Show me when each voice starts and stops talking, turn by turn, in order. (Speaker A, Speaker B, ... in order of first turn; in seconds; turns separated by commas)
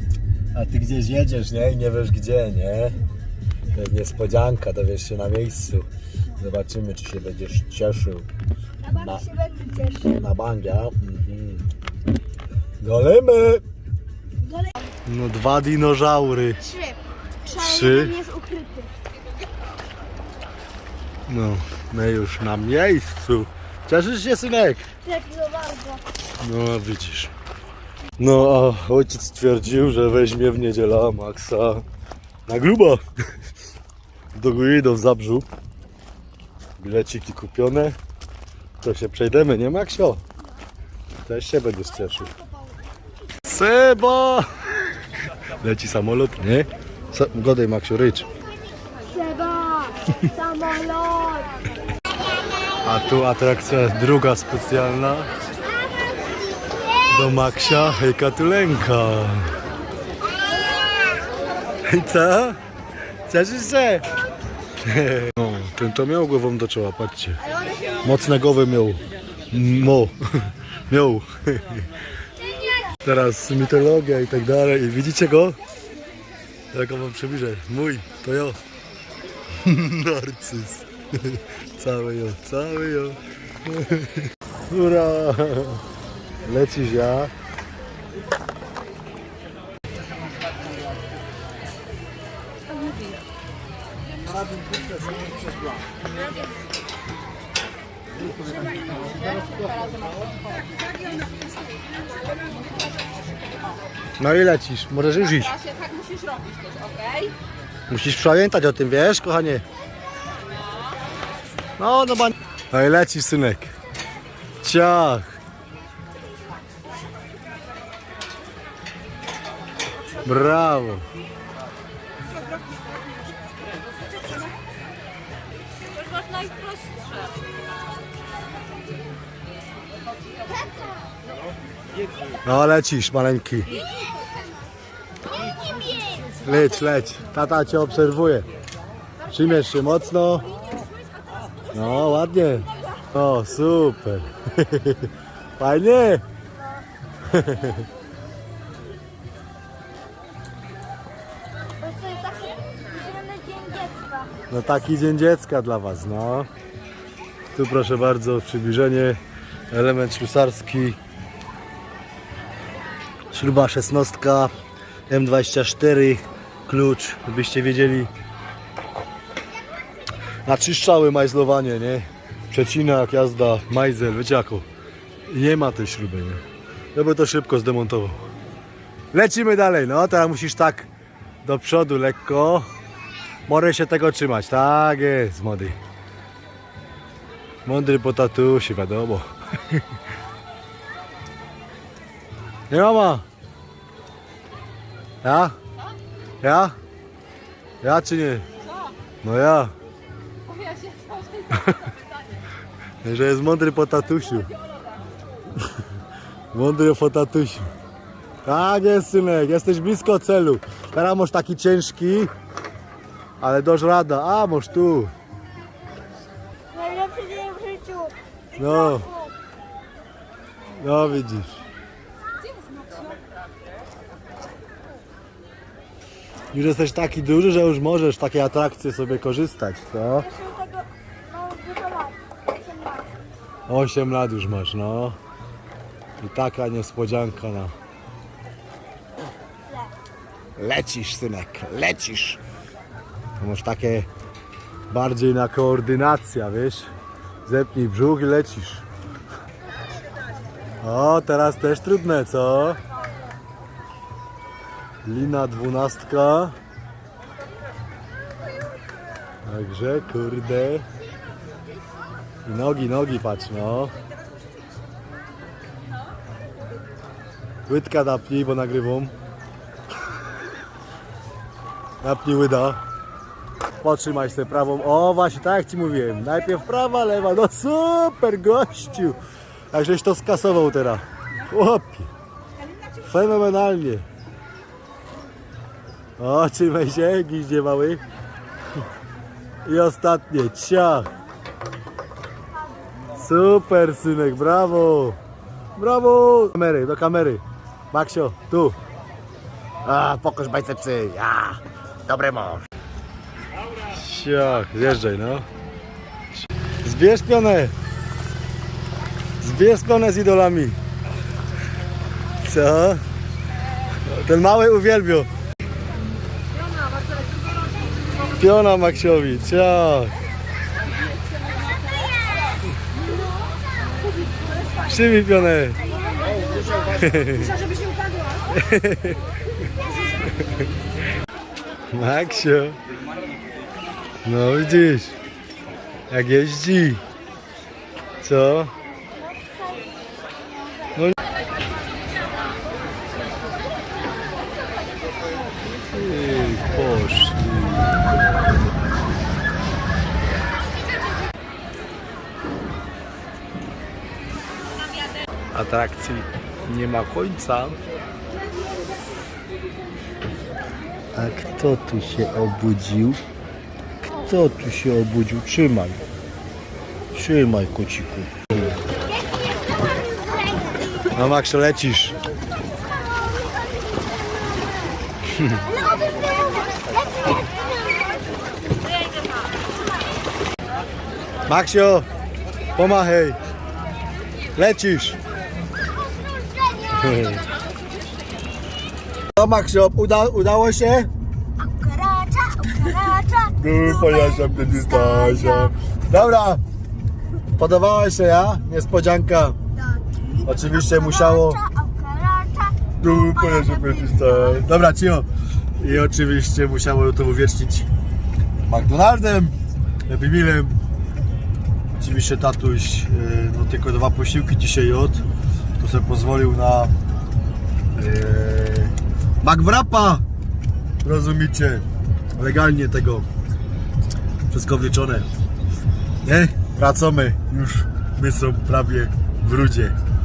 Speaker A: 0.5-3.0, Speaker A: 3.7-8.2, Speaker B: 8.9-10.1, Speaker A: 8.9-9.3, Speaker A: 10.0-11.7, Speaker A: 12.8-13.6, Speaker A: 15.0-16.7, Speaker B: 16.6-18.9, Speaker A: 17.5-18.2, Speaker A: 21.3-24.9, Speaker B: 25.0-26.0, Speaker A: 26.4-27.3, Speaker A: 28.2-31.8, Speaker A: 32.5-33.0, Speaker A: 34.3-35.5, Speaker A: 36.8-38.0, Speaker A: 38.8-40.2, Speaker A: 41.2-42.3, Speaker A: 43.4-44.5, Speaker A: 45.6-48.3, Speaker B: 49.0-51.6, Speaker A: 52.8-55.3, Speaker A: 57.1-59.5, Speaker A: 61.8-62.6, Speaker A: 63.2-64.1, Speaker A: 64.8-67.4, Speaker A: 68.0-71.9, Speaker A: 73.0-75.6, Speaker A: 76.7-78.6, Speaker A: 79.6-85.8, Speaker A: 86.4-87.3, Speaker C: 99.2-100.1, Speaker A: 104.2-105.6, Speaker C: 105.6-107.3, Speaker A: 107.9-109.6, Speaker A: 111.8-113.7, Speaker A: 114.6-115.3, Speaker A: 120.2-121.0, Speaker C: 126.0-127.3, Speaker A: 132.4-133.8, Speaker B: 135.4-136.3, Speaker A: 136.4-138.5, Speaker A: 139.3-140.6, Speaker B: 141.1-141.5, Speaker A: 141.7-146.2, Speaker A: 147.3-147.8, Speaker B: 151.8-154.3, Speaker A: 154.5-156.5, Speaker A: 157.5-159.2, Speaker A: 159.7-161.0, Speaker A: 163.3-164.5, Speaker A: 165.1-168.1, Speaker A: 170.4-174.7, Speaker A: 175.3-176.4, Speaker A: 176.9-178.2, Speaker A: 179.1-180.9, Speaker A: 181.4-182.7, Speaker A: 183.5-185.8, Speaker A: 187.7-189.8, Speaker A: 192.7-193.2, Speaker A: 195.2-195.6, Speaker A: 196.4-196.8, Speaker A: 197.8-198.4, Speaker A: 199.2-199.7, Speaker C: 200.5-201.5, Speaker A: 201.5-201.8, Speaker A: 203.0-204.5, Speaker A: 206.5-207.7, Speaker A: 208.4-212.3, Speaker A: 213.4-215.1, Speaker B: 216.7-219.3, Speaker A: 218.6-219.1, Speaker A: 220.7-221.6, Speaker A: 226.5-230.3, Speaker B: 230.2-233.1, Speaker A: 233.7-235.2, Speaker A: 236.2-237.7, Speaker A: 240.6-242.4, Speaker A: 243.4-244.1, Speaker A: 244.9-246.9, Speaker A: 247.4-248.8, Speaker A: 250.8-252.8, Speaker A: 255.0-256.6, Speaker A: 259.4-260.9, Speaker A: 262.4-264.0, Speaker A: 267.7-269.1, Speaker A: 272.0-272.8, Speaker A: 273.8-279.2, Speaker A: 279.7-282.1, Speaker A: 283.0-284.0, Speaker A: 286.2-288.0, Speaker A: 289.6-291.1, Speaker A: 293.1-295.2, Speaker A: 295.8-298.8, Speaker A: 299.8-302.6, Speaker A: 303.9-305.4, Speaker A: 306.3-307.7, Speaker A: 309.4-310.8, Speaker A: 312.4-313.0, Speaker A: 313.9-315.3, Speaker B: 316.7-317.6, Speaker A: 318.2-320.1, Speaker A: 324.8-326.0, Speaker B: 326.1-326.7, Speaker A: 326.7-327.6, Speaker A: 328.5-329.2, Speaker A: 331.9-332.8, Speaker A: 334.2-335.2, Speaker A: 336.1-337.0, Speaker A: 338.2-338.7, Speaker A: 345.9-348.0, Speaker A: 355.5-357.8, Speaker A: 361.1-363.2, Speaker A: 364.2-366.0, Speaker A: 367.1-368.8, Speaker B: 369.7-371.1, Speaker A: 371.1-372.2, Speaker B: 372.7-373.8, Speaker A: 375.3-375.6, Speaker B: 376.0-377.6, Speaker A: 381.5-382.1, Speaker A: 382.7-383.4, Speaker A: 384.5-385.2, Speaker B: 386.1-386.9, Speaker A: 386.9-387.4, Speaker A: 389.3-391.1, Speaker B: 391.6-395.7, Speaker A: 393.5-396.6, Speaker A: 397.5-399.6, Speaker B: 400.0-403.0, Speaker A: 400.4-401.6, Speaker A: 403.0-405.3, Speaker B: 403.5-404.6, Speaker A: 405.8-407.9, Speaker A: 408.6-409.5, Speaker A: 410.1-410.8, Speaker A: 412.0-415.2, Speaker A: 415.8-416.9, Speaker A: 417.9-420.2, Speaker A: 421.0-421.8, Speaker A: 422.4-423.3, Speaker A: 424.5-425.3, Speaker A: 426.2-429.9